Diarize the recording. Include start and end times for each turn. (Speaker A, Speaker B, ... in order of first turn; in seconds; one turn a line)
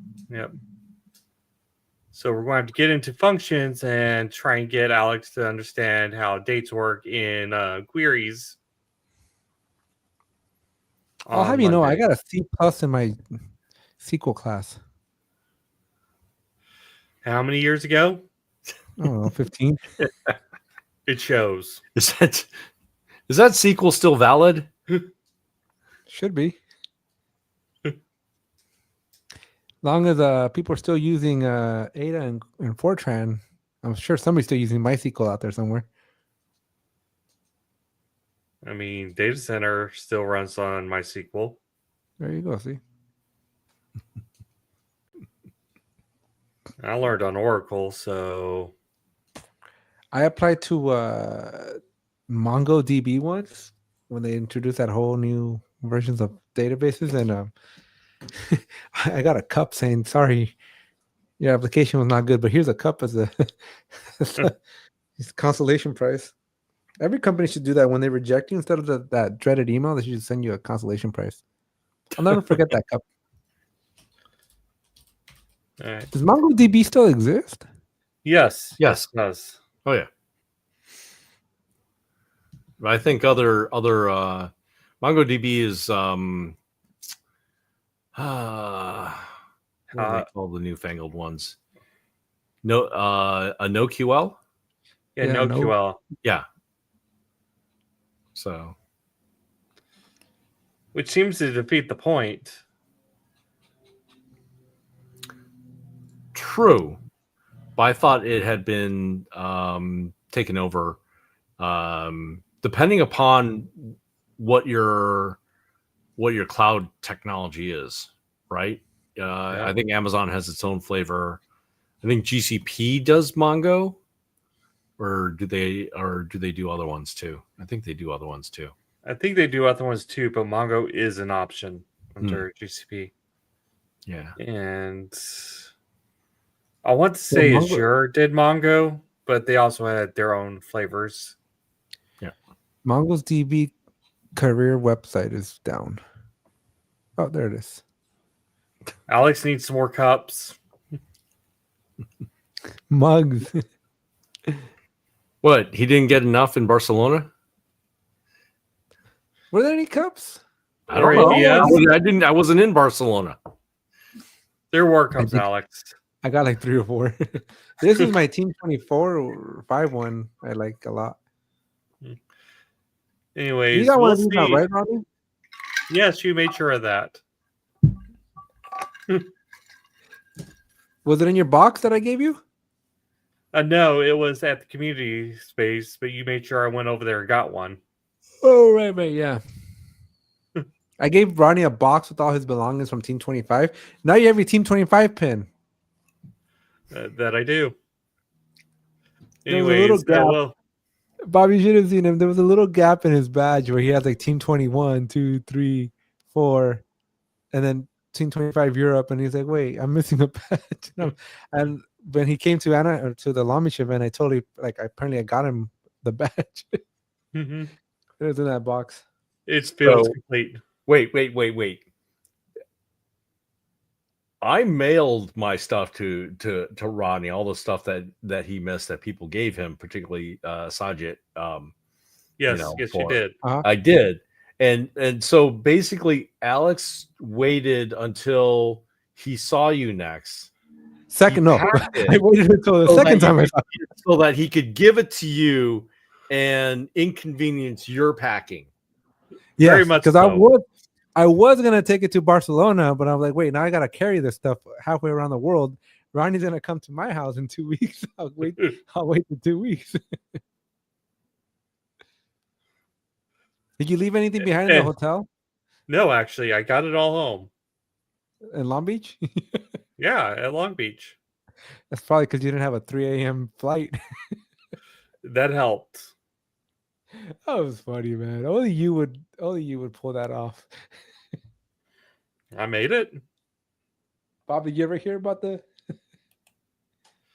Speaker A: 2.1-8.6
Speaker A: 11.2-12.1
Speaker B: 11.3-13.2
Speaker B: 14.0-14.8
Speaker A: 17.2-18.2
Speaker B: 19.0-19.9
Speaker A: 21.1-21.8
Speaker C: 21.9-22.5
Speaker C: 23.3-24.7
Speaker B: 26.1-26.6
Speaker B: 29.8-35.9
Speaker A: 38.6-41.6
Speaker B: 42.2-42.8
Speaker A: 46.8-48.7
Speaker B: 50.1-57.5
Speaker B: 58.5-60.5
Speaker B: 61.4-63.3
Speaker B: 64.2-64.6
Speaker B: 65.2-66.3
Speaker B: 67.0-71.4
Speaker B: 72.1-73.0
Speaker A: 75.8-76.1
Speaker B: 76.1-77.6
Speaker A: 78.2-79.6
Speaker C: 78.8-79.1
Speaker C: 82.8-86.6
Speaker C: 88.2-89.3
Speaker A: 89.9-90.3
Speaker C: 90.0-91.6
Speaker C: 92.6-94.4
Speaker A: 95.2-96.0
Speaker B: 95.2-95.8
Speaker C: 98.3-98.8
Speaker A: 100.9-102.6
Speaker C: 106.3-107.0
Speaker C: 107.8-111.0
Speaker C: 111.6-115.4
Speaker C: 116.2-121.4
Speaker A: 119.5-119.8
Speaker C: 122.0-124.0
Speaker C: 125.0-128.7
Speaker A: 129.0-133.1
Speaker C: 134.1-134.4
Speaker A: 134.4-135.7
Speaker A: 136.8-141.4
Speaker B: 137.3-137.9
Speaker B: 142.8-143.7
Speaker B: 144.4-146.0
Speaker B: 147.2-147.8
Speaker A: 149.1-150.6
Speaker B: 152.9-153.6
Speaker C: 155.4-157.3
Speaker B: 159.5-161.9
Speaker C: 160.9-163.4
Speaker A: 160.9-161.8
Speaker A: 164.7-165.9
Speaker B: 165.2-165.5
Speaker B: 166.2-171.2
Speaker A: 173.3-174.7
Speaker B: 173.7-175.1
Speaker A: 175.9-177.2
Speaker B: 181.1-182.4
Speaker A: 183.5-187.8
Speaker B: 188.4-189.4
Speaker B: 191.0-195.5
Speaker A: 196.9-197.8
Speaker A: 199.4-200.6
Speaker B: 199.5-200.4
Speaker B: 201.3-206.8
Speaker B: 207.5-216.8
Speaker A: 217.3-217.7
Speaker B: 218.2-219.0
Speaker A: 219.5-220.6
Speaker C: 219.8-220.2
Speaker C: 220.9-221.8
Speaker C: 224.4-231.7
Speaker A: 232.4-233.4
Speaker C: 232.5-240.5
Speaker B: 233.4-233.7
Speaker B: 241.1-243.7
Speaker C: 241.3-242.2
Speaker C: 242.8-248.7
Speaker B: 249.6-250.6
Speaker A: 249.6-250.5
Speaker B: 251.2-260.0
Speaker B: 263.8-265.3
Speaker A: 264.6-264.9
Speaker A: 265.9-267.5
Speaker B: 268.5-269.6
Speaker A: 270.0-271.2
Speaker B: 271.9-273.9
Speaker A: 275.2-276.1
Speaker B: 277.5-280.7
Speaker A: 282.5-283.2
Speaker B: 284.5-285.7